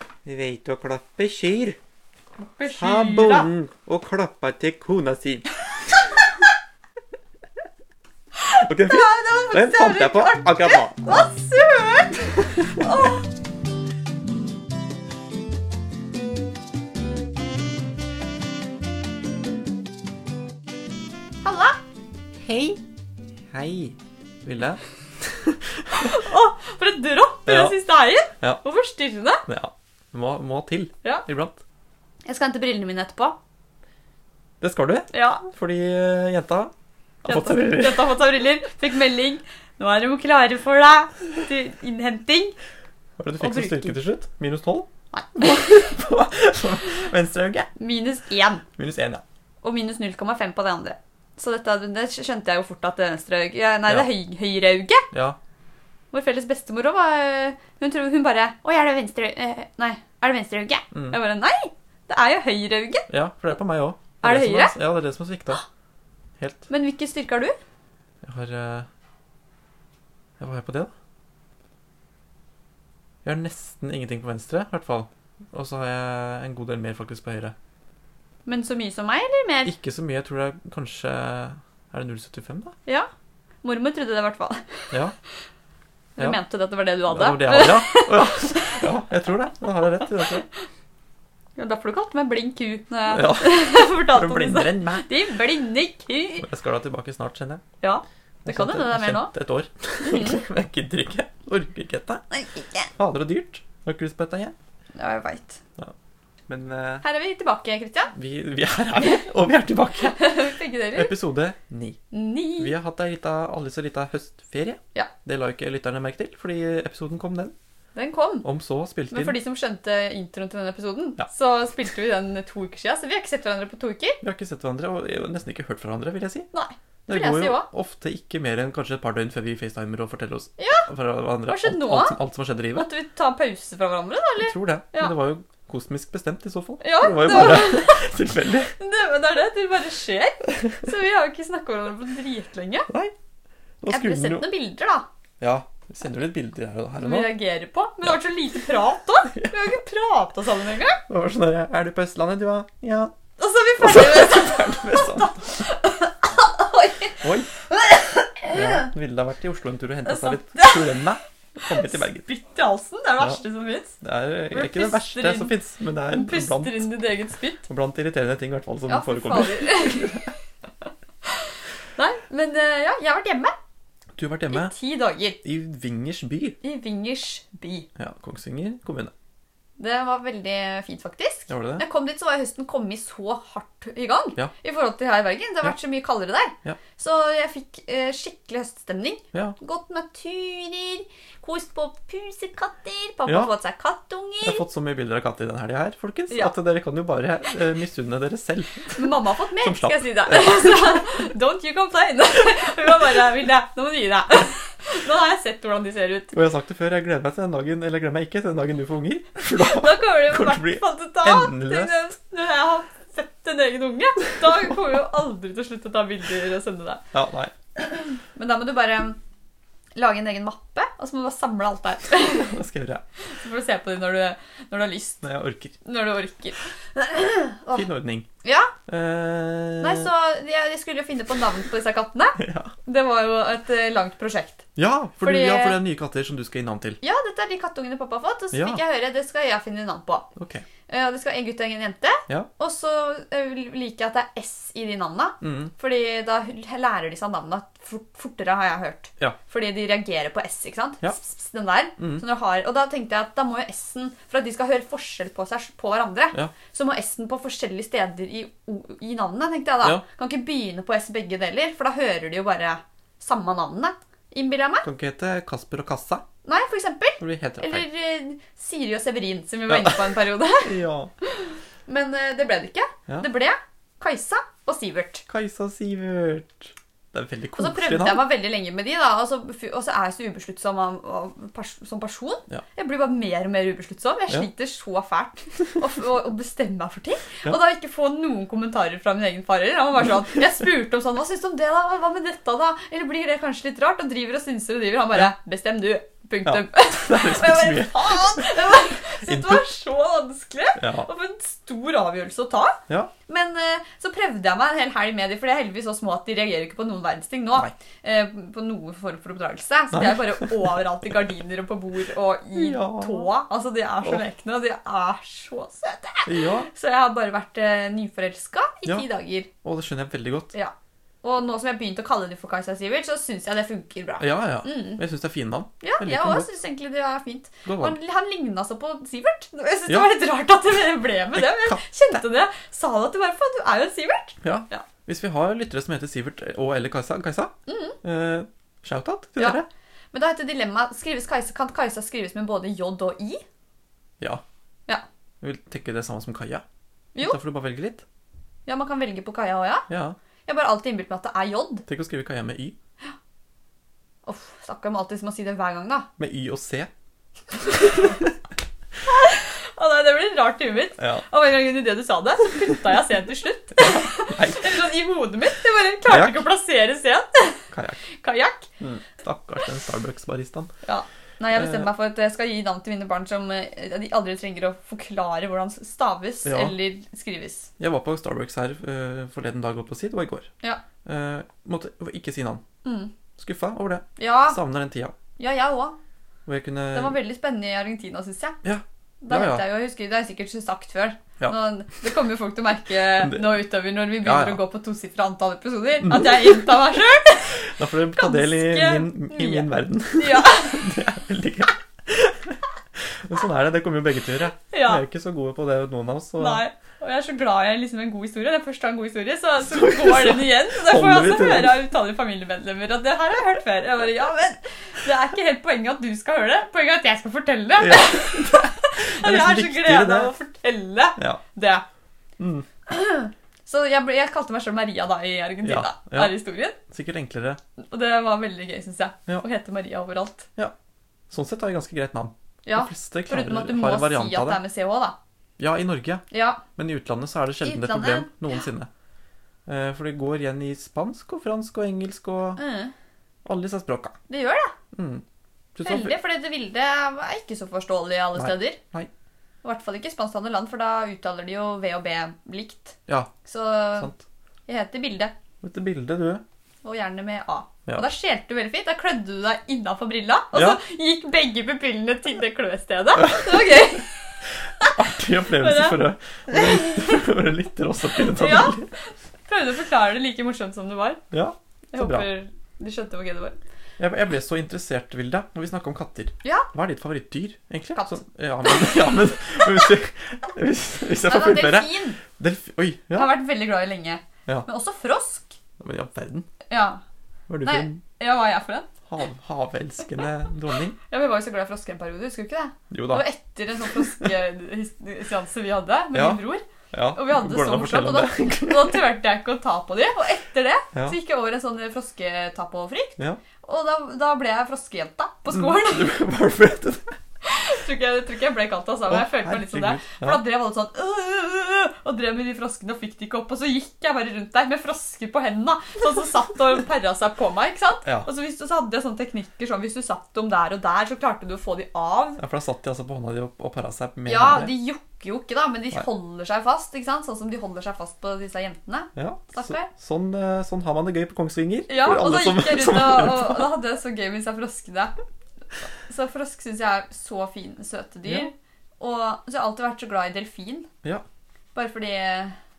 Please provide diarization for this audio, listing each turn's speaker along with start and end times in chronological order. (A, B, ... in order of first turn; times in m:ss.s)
0:00.2-0:01.8 A
0:02.4-0:03.5 B
0:02.8-0:05.4 A
0:08.4-0:13.3 B
0:08.6-0:11.3 A
0:12.6-0:12.8 A
0:21.4-0:21.8 B
0:22.4-0:22.8 A
0:23.5-0:26.2 A
0:25.9-0:29.4 B
0:27.4-0:27.8 A
0:29.5-0:31.6 A
0:32.2-0:33.4 B
0:34.6-0:36.7 A
0:35.1-0:35.4 B
0:37.2-0:38.2 A
0:37.2-0:42.5 B
0:43.2-0:47.7 A
0:43.4-0:44.0 B
0:45.1-0:45.6 B
0:47.8-0:48.6 B
0:48.8-0:49.2 A
0:49.6-0:55.1 B
0:55.1-0:55.4 A
0:56.1-1:03.1 B
1:00.9-1:01.2 A
1:03.1-1:05.6 A
1:04.2-1:04.7 B
1:06.4-1:06.7 A
1:06.7-1:07.6 B
1:08.2-1:08.9 A
1:10.4-1:10.9 A
1:13.2-1:17.5 A
1:18.4-1:19.7 B
1:19.6-1:22.8 A
1:23.6-1:24.9 B
1:26.2-1:28.9 B
1:27.1-1:30.5 A
1:31.6-1:36.4 B
1:33.1-1:35.1 A
1:36.4-1:37.6 A
1:37.8-1:39.3 B
1:38.4-1:42.2 A
1:40.0-1:40.4 B
1:42.3-1:42.9 B
1:43.0-1:44.5 A
1:44.9-1:45.6 B
1:46.5-1:47.0 A
1:47.0-1:48.1 B
1:48.1-1:50.4 A
1:49.0-1:49.2 B
1:50.0-1:51.1 B
1:50.9-1:52.0 A
1:52.1-1:52.7 B
1:52.6-1:57.5 A
1:57.9-1:58.4 B
1:58.4-1:59.4 A
1:59.1-2:04.2 B
2:04.2-2:06.5 A
2:06.5-2:07.7 B
2:07.1-2:12.9 A
2:10.6-2:10.9 B
2:11.4-2:12.2 B
2:12.7-2:15.1 B
2:14.4-2:18.7 A
2:16.8-2:18.1 B
2:18.8-2:22.9 B
2:22.9-2:23.1 A
2:23.8-2:24.4 A
2:23.9-2:25.1 B
2:25.4-2:27.4 A
2:27.0-2:31.0 B
2:29.3-2:29.6 A
2:31.1-2:33.1 A
2:33.4-2:38.9 B
2:33.8-2:35.6 A
2:37.2-2:37.5 A
2:38.5-2:42.3 A
2:40.0-2:41.0 B
2:41.6-2:44.0 B
2:44.0-2:46.9 A
2:44.5-2:45.5 B
2:46.1-2:47.6 B
2:47.6-2:50.3 A
2:48.9-2:50.3 B
2:51.2-2:53.5 B
2:54.2-2:54.7 A
2:54.5-2:55.4 B
2:55.4-2:56.6 A
2:56.6-2:57.9 B
2:58.0-2:59.1 A
2:59.8-3:14.6 B
3:01.5-3:01.8 A
3:13.3-3:13.5 A
3:14.4-3:19.1 A
3:19.0-3:26.3 B
3:19.6-3:21.2 A
3:26.3-3:32.0 A
3:29.6-3:37.0 B
3:37.1-3:37.5 A
3:37.8-3:39.2 B
3:40.0-3:42.5 B
3:42.2-3:43.0 A
3:43.3-3:45.2 B
3:45.2-3:45.8 A
3:45.8-3:47.9 B
3:47.7-3:48.2 A
3:48.4-3:48.7 B
3:48.9-3:50.1 A
3:49.8-3:54.6 B
3:52.4-3:52.7 A
3:54.8-3:57.0 A
3:55.2-3:55.8 B
3:57.0-4:00.3 B
3:58.5-3:58.8 A
4:00.4-4:00.6 A
4:00.9-4:24.8 B
4:05.4-4:05.7 A
4:24.8-4:26.2 A
4:26.4-4:35.2 B
4:27.2-4:27.9 A
4:29.7-4:31.1 A
4:35.3-4:38.3 A
4:37.6-5:19.5 B
4:56.4-4:59.6 A
5:00.8-5:01.1 A
5:09.9-5:10.7 A
5:12.6-5:13.3 A
5:16.2-5:16.7 A
5:19.6-5:20.5 A
5:20.5-5:25.0 B
5:24.2-5:26.5 A
5:25.8-5:34.8 B
5:27.6-5:28.0 A
5:29.9-5:30.1 A
5:31.3-5:32.2 A
5:34.4-5:39.7 A
5:37.7-5:38.0 B
5:40.1-5:43.4 B
5:45.4-5:46.6 A
5:47.2-5:48.0 A
5:48.6-5:49.9 B
5:49.9-5:50.2 A
5:50.4-5:51.8 B
5:51.9-5:52.7 A
5:54.2-5:56.1 B
5:56.2-5:56.9 A
5:57.7-5:58.3 A
5:59.0-6:08.7 B
6:01.0-6:01.2 A
6:03.8-6:04.8 A
6:06.1-6:06.4 A
6:07.7-6:08.0 A
6:08.8-6:10.7 A
6:10.8-6:17.7 B
6:11.5-6:11.9 A
6:16.4-6:16.8 A
6:17.8-6:20.5 A
6:21.0-6:22.6 A
6:22.8-6:23.1 B
6:23.4-6:25.1 A
6:24.2-6:24.6 B
6:25.4-6:26.0 B
6:26.4-6:27.2 A
6:26.9-6:28.6 B
6:28.6-6:29.6 A
6:29.2-6:40.8 B
6:33.2-6:33.6 A
6:34.2-6:34.6 A
6:36.0-6:37.0 A
6:37.6-6:46.6 A
6:44.7-6:45.0 B
6:46.4-7:01.8 B
6:49.6-6:51.8 A
6:57.8-7:00.3 A
7:02.4-7:02.6 A
7:02.9-7:06.8 B
7:05.6-7:06.3 A
7:06.9-7:07.6 A
7:07.8-7:10.5 B
7:11.3-7:14.6 A
7:12.6-7:15.2 B
7:15.6-7:16.2 A
7:16.3-7:16.6 B
7:16.8-7:18.9 A
7:17.6-7:18.3 B
7:19.6-7:22.6 A
7:22.6-7:22.9 B
7:23.4-7:24.2 A
7:24.3-7:24.7 B
7:24.9-7:25.2 A
7:25.7-7:26.2 A
7:25.8-7:28.8 B
7:28.3-7:29.1 A
7:29.6-7:34.1 B
7:34.0-7:34.2 A
7:34.7-7:35.3 B
7:35.6-7:36.4 A
7:36.8-7:45.0 B
7:40.5-7:40.8 A
7:43.1-7:44.0 A
7:44.8-7:48.9 A
7:45.5-7:47.2 B
7:48.3-7:51.2 B
7:51.3-7:52.3 A
7:51.9-7:53.6 B
7:54.0-8:03.3 A
7:58.0-7:58.9 B
8:01.2-8:02.2 B
8:03.1-8:05.6 B
8:05.8-8:06.5 A
8:06.7-8:07.0 B
8:07.5-8:08.0 A
8:07.6-8:08.9 B
8:09.1-8:11.0 A
8:11.0-8:26.2 B
8:12.9-8:13.2 A
8:13.9-8:14.3 A
8:16.1-8:19.0 A
8:25.5-8:27.1 A
8:27.4-8:42.4 B
8:29.1-8:30.4 A
8:42.4-8:44.7 A
8:44.2-8:49.9 B
8:49.2-8:53.7 A
8:51.9-8:55.1 B
8:56.1-9:00.9 B
9:01.7-9:02.6 B